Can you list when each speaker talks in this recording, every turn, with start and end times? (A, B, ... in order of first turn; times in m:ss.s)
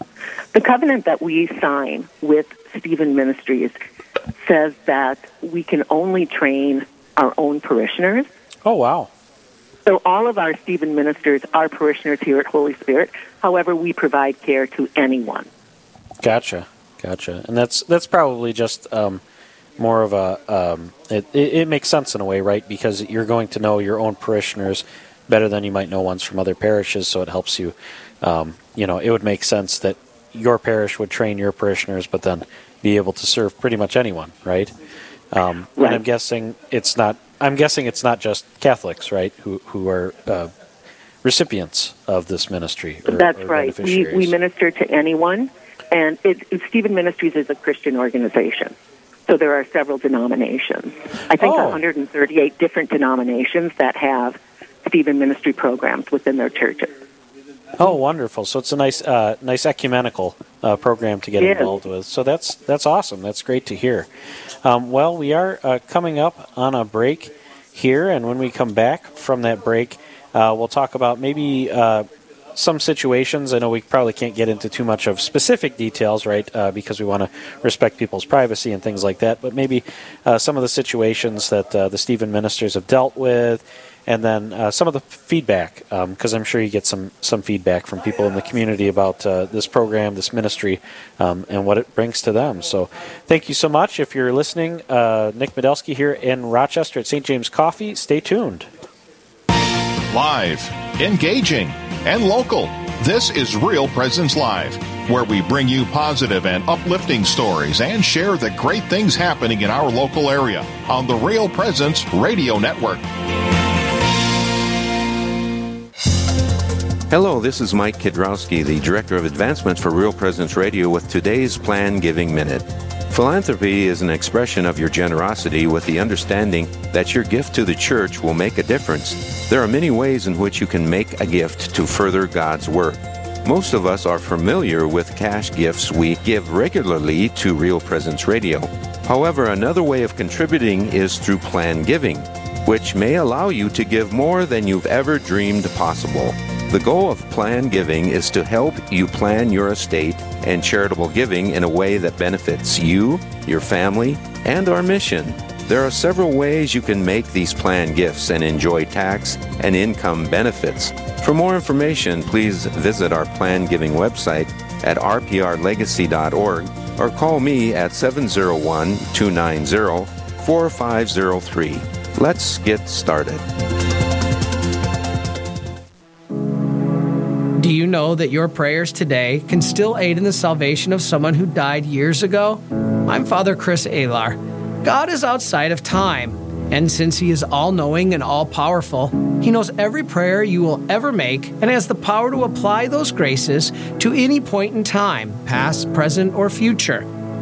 0:00.5-0:03.7 A
0:04.4-0:08.3 A
0:08.6-0:09.1 B
0:09.8-0:15.5 A
0:16.2-0:19.2 B
0:19.8-0:34.7 B
0:35.3-0:40.5 B
0:35.8-0:36.0 A
0:41.2-0:44.3 B
0:43.1-0:48.7 A
0:49.3-0:56.9 A
0:51.4-0:51.8 B
0:57.8-1:04.1 B
1:01.4-1:01.7 A
1:04.6-1:38.7 B
1:40.1-1:53.0 C
1:57.1-2:53.4 D
2:57.6-3:17.1 E